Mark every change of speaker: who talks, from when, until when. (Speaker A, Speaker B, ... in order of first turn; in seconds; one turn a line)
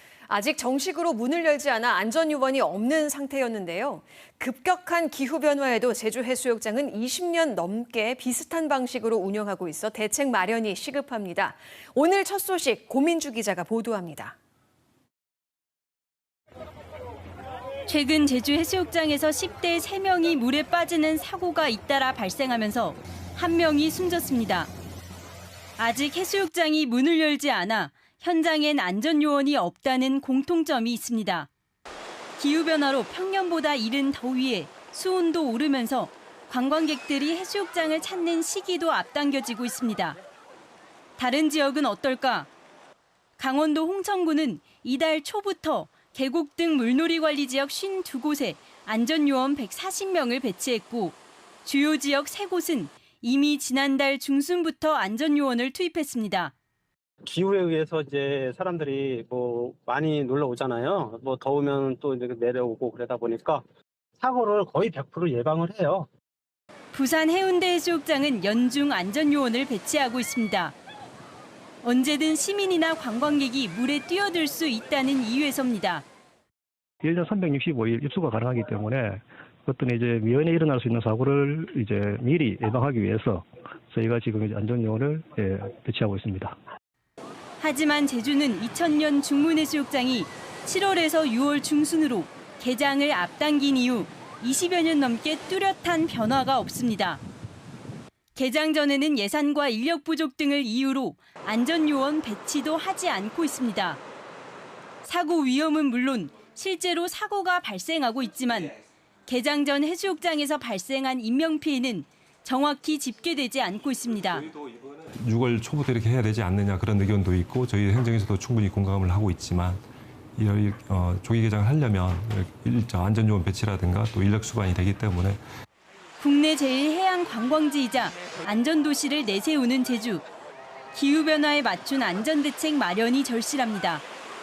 Speaker A: 0.3-14.3
Speaker B: 17.9-24.7
Speaker B: 25.8-31.5
Speaker B: 32.4-40.2
Speaker B: 41.2-42.5
Speaker B: 43.4-56.5
Speaker C: 57.2-63.6
Speaker C: 64.2-66.1
Speaker B: 66.9-70.8
Speaker B: 71.8-76.0
Speaker D: 77.0-86.6
Speaker B: 87.6-97.2
Speaker B: 98.3-104.0
Speaker B: 105.0-108.7
Speaker B: 109.3-114.5
Speaker E: 114.4-119.8
Speaker E: 120.3-125.4
Speaker B: 126.2-130.2
Speaker B: 130.9-134.1